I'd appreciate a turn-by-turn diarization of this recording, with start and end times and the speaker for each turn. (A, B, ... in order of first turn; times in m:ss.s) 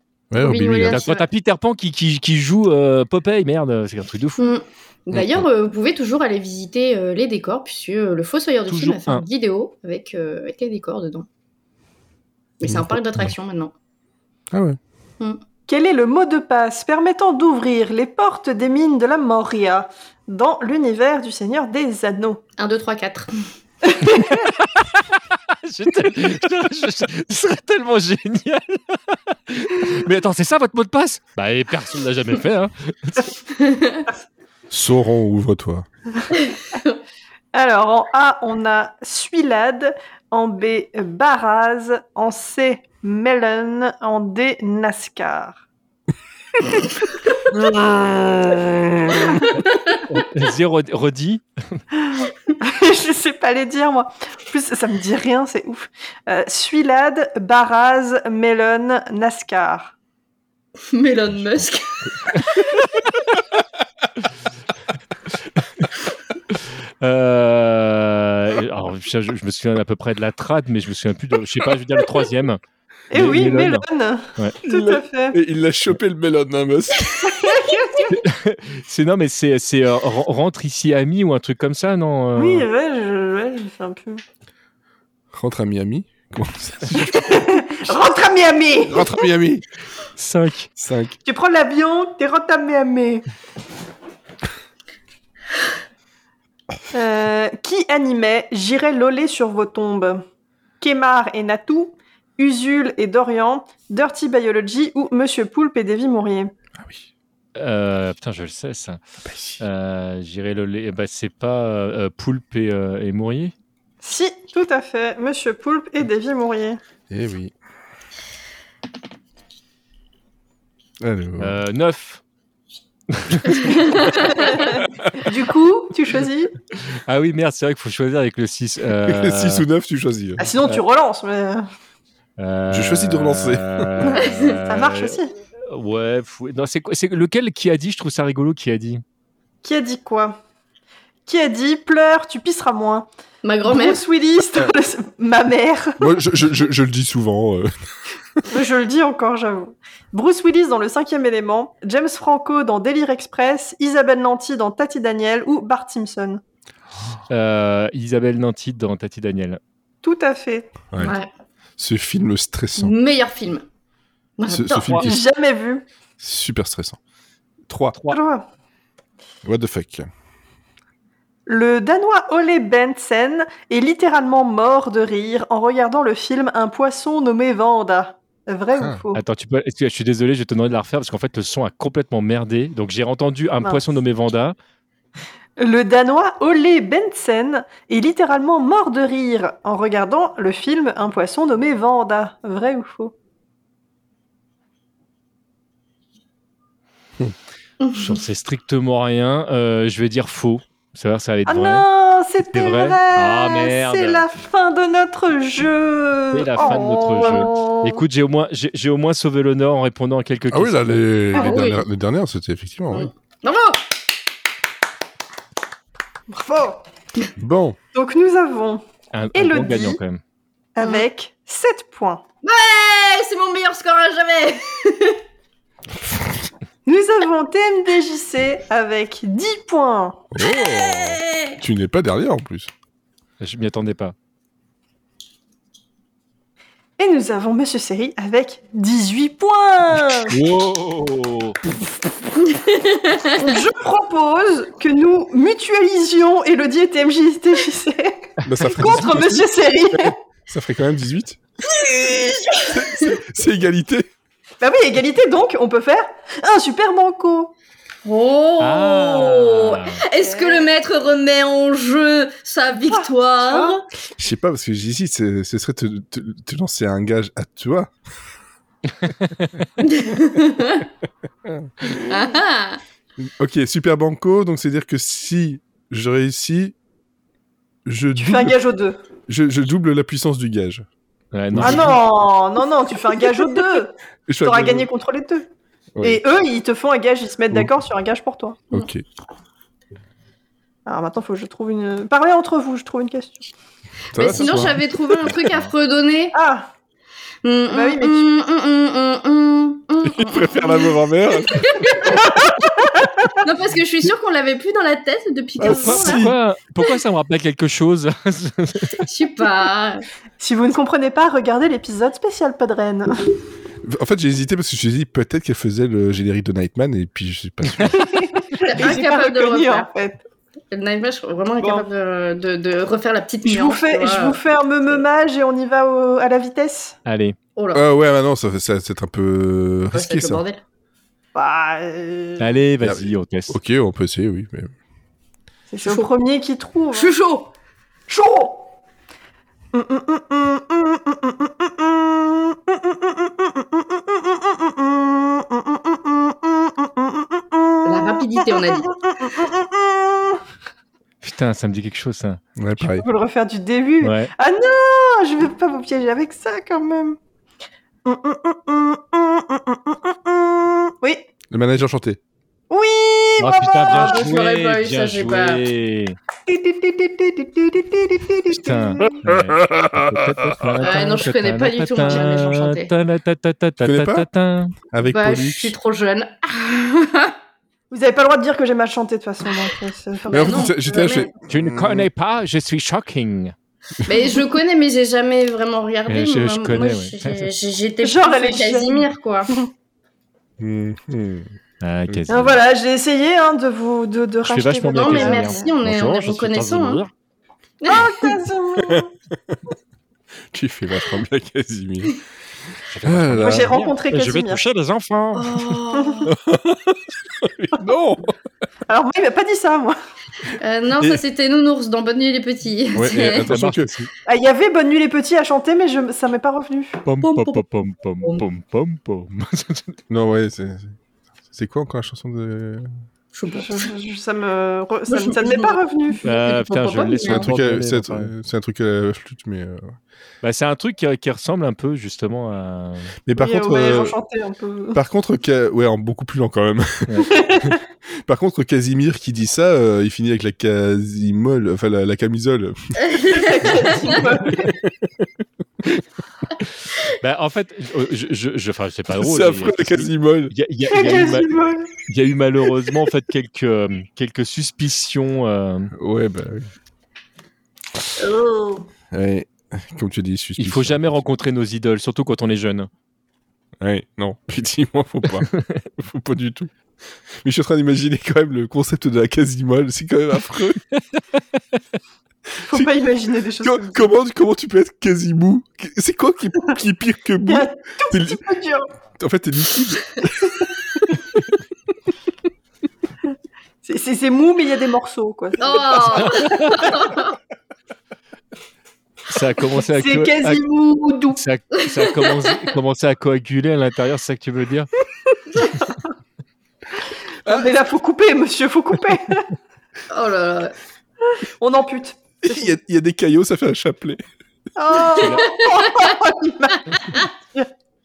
0:00.3-0:01.0 A
0:00.4-0:01.3 B
0:00.9-0:04.5 C
0:04.4-0:11.3 B
0:05.1-0:05.4 A
0:08.7-0:09.2 C
0:12.6-0:13.7 B
0:14.5-0:14.8 A
0:15.7-0:22.4 D
0:22.6-0:23.5 B
0:23.8-0:24.5 D
0:24.7-0:33.4 C
0:33.6-0:34.0 B
0:34.7-0:35.9 A
0:36.5-0:36.9 B
0:37.5-0:45.6 D
0:47.5-0:49.4 D
0:50.1-0:51.8 C
0:52.1-1:00.0 D
1:00.9-1:02.5 B
1:02.2-1:02.7 C
1:06.5-1:12.6 C
1:13.1-1:15.4 D
1:13.1-1:13.8 C
1:14.6-1:17.5 A
1:17.2-1:18.2 D
1:18.1-1:22.7 C
1:22.4-1:24.2 D
1:25.3-1:27.6 A
1:27.1-1:29.2 D
1:28.9-1:29.6 A
1:30.2-1:30.7 C
1:30.8-1:31.2 A
1:31.2-1:33.2 D
1:36.9-1:40.2 D
1:40.8-1:46.5 D
1:46.8-1:47.1 A
1:47.6-1:49.0 C
1:49.2-1:49.6 A
1:49.6-1:53.5 C
1:54.0-1:56.8 D
1:57.1-1:57.5 A
2:01.0-2:01.6 A
2:01.4-2:02.2 C
2:03.1-2:04.3 C
2:04.1-2:06.5 D
2:07.1-2:09.6 C
2:09.1-2:10.5 A
2:10.4-2:11.6 D
2:12.4-2:19.0 C
2:12.7-2:14.1 A
2:14.0-2:15.3 D
2:14.2-2:14.6 B
2:19.6-2:20.4 D
2:21.3-2:23.1 D
2:23.4-2:24.0 B
2:23.6-2:26.1 D
2:26.0-2:27.7 A
2:28.5-2:36.4 D
2:37.3-2:39.6 C
2:40.0-2:40.7 D
2:41.0-2:41.3 B
2:41.8-2:42.9 A
2:42.8-2:43.6 B
2:44.4-2:45.1 B
2:44.5-2:45.2 A
2:44.9-2:45.8 D
2:46.2-2:47.0 A
2:47.7-2:48.0 A
2:48.1-2:48.5 D
2:49.4-2:50.1 A
2:51.5-2:59.2 D
2:58.8-2:59.0 A
2:59.1-3:04.6 C
3:05.6-3:13.1 D
3:17.8-3:18.2 B
3:17.9-3:21.8 C
3:21.5-3:28.0 D
3:22.4-3:24.3 C
3:26.3-3:31.1 C
3:26.6-3:27.5 B
3:30.5-3:33.1 A
3:31.3-3:31.8 B
3:32.9-3:33.9 B
3:36.3-3:36.8 D
3:37.4-3:37.8 A
3:37.9-3:38.8 D
3:39.1-3:40.2 C
3:39.3-3:40.0 D
3:40.8-3:42.2 D
3:40.8-3:41.1 B
3:42.4-3:45.2 B
3:46.9-3:50.2 D
3:50.3-3:52.7 A
3:50.4-3:51.6 B
3:53.4-3:54.2 C
3:57.0-4:00.4 D
4:00.3-4:01.6 C
4:02.5-4:03.4 B
4:03.3-4:10.2 D
4:08.4-4:09.4 A
4:10.0-4:11.4 A
4:11.7-4:12.8 D
4:12.7-4:14.1 A
4:14.6-4:17.5 D
4:18.0-4:23.8 B
4:18.6-4:20.0 C
4:20.2-4:20.7 D
4:22.9-4:23.8 D
4:24.2-4:27.9 A
4:29.0-4:29.6 C
4:29.8-4:30.9 B
4:31.5-4:32.0 A
4:32.1-4:32.8 B
4:33.2-4:36.8 A
4:37.9-4:38.6 A
4:38.2-4:39.0 D
4:39.3-4:40.9 A
4:41.3-4:42.0 C
4:41.5-4:42.0 A
4:41.6-4:45.5 D
4:44.3-4:44.9 A
4:46.0-4:46.2 A
4:46.0-4:48.6 D
4:48.7-4:49.0 A
4:50.9-4:53.5 D
4:54.1-4:54.8 A
4:54.2-4:56.4 B
4:56.3-4:56.7 D
4:57.4-5:02.3 B
4:57.7-4:58.3 D
5:00.0-5:02.2 A
5:02.1-5:03.3 D
5:03.4-5:06.3 B
5:05.6-5:06.4 A
5:05.7-5:09.0 C
5:09.0-5:10.0 B
5:10.4-5:13.2 D
5:13.8-5:18.2 A
5:18.0-5:20.2 D
5:18.6-5:19.9 B
5:20.7-5:24.4 B
5:21.6-5:21.9 D
5:23.4-5:27.0 D
5:27.1-5:27.4 C
5:27.6-5:27.8 B
5:27.7-5:30.4 A
5:29.9-5:30.6 B
5:31.4-5:32.5 D
5:32.4-5:33.6 C
5:32.8-5:34.7 A
5:35.7-5:37.1 D
5:35.8-5:36.1 B
5:36.9-5:37.5 B
5:38.1-5:38.7 D
5:39.7-5:50.4 D
5:47.8-5:48.9 B
5:51.2-5:52.4 C
5:52.6-5:53.1 A
5:52.9-5:57.2 D
5:54.0-5:54.3 C
5:58.0-6:01.3 D
6:01.5-6:02.2 A
6:02.7-6:04.3 D
6:03.4-6:06.2 C
6:03.9-6:05.7 B
6:06.5-6:09.2 D
6:08.5-6:14.8 C
6:09.3-6:10.7 A
6:10.8-6:12.9 B
6:13.8-6:14.3 A
6:14.9-6:15.8 A
6:15.1-6:17.4 B
6:17.9-6:20.7 D
6:20.3-6:21.3 B
6:20.3-6:22.1 A
6:21.5-6:23.6 C
6:24.1-6:29.6 B
6:26.1-6:27.5 C
6:28.0-6:29.7 D
6:30.6-6:31.5 A
6:31.8-6:32.6 C
6:32.1-6:32.3 A
6:32.3-6:35.7 D
6:34.5-6:37.1 C
6:34.9-6:37.0 B
6:37.8-6:38.2 B
6:37.9-6:39.1 D
6:38.9-6:39.6 A
6:40.5-6:42.2 A
6:42.9-6:45.8 C
6:43.0-6:43.8 A
6:43.4-6:44.6 D
6:45.4-6:46.3 B
6:45.9-6:46.3 D
6:46.3-6:48.3 A
6:48.9-6:50.0 D
6:50.6-6:53.5 B
6:52.9-6:53.9 A
6:53.4-6:54.1 C
6:54.3-6:57.0 D
6:57.1-7:00.0 C
6:57.2-6:57.6 B
7:00.1-7:01.0 A
7:01.5-7:02.9 A
7:03.3-7:03.9 B
7:03.5-7:06.2 D
7:05.1-7:07.5 B
7:06.2-7:08.3 C
7:07.3-7:10.0 A
7:10.4-7:13.1 C
7:13.3-7:14.2 A
7:13.4-7:15.0 D
7:15.0-7:23.4 A
7:17.1-7:17.4 C
7:17.2-7:17.8 D
7:23.1-7:23.6 B
7:23.3-7:24.8 D
7:27.0-7:31.5 C
7:29.1-7:30.5 A
7:30.9-7:31.9 D
7:32.0-7:35.9 C
7:35.9-7:36.7 A
7:38.2-7:38.8 D
7:39.1-7:41.2 A
7:40.6-7:42.9 C
7:43.8-7:46.7 A
7:47.4-7:50.8 A
7:52.7-7:54.1 D
7:53.6-7:58.4 A
7:57.5-7:58.9 D
7:59.2-8:00.6 A
8:03.8-8:07.1 D
8:05.6-8:07.4 B
8:06.1-8:07.0 C
8:09.3-8:10.6 C
8:09.8-8:11.4 D
8:11.4-8:14.9 C
8:12.0-8:12.6 B
8:17.4-8:19.5 D
8:20.1-8:20.8 B
8:21.4-8:22.8 D
8:22.4-8:24.2 A
8:24.8-8:27.7 D
8:25.2-8:25.5 C
8:25.2-8:26.2 B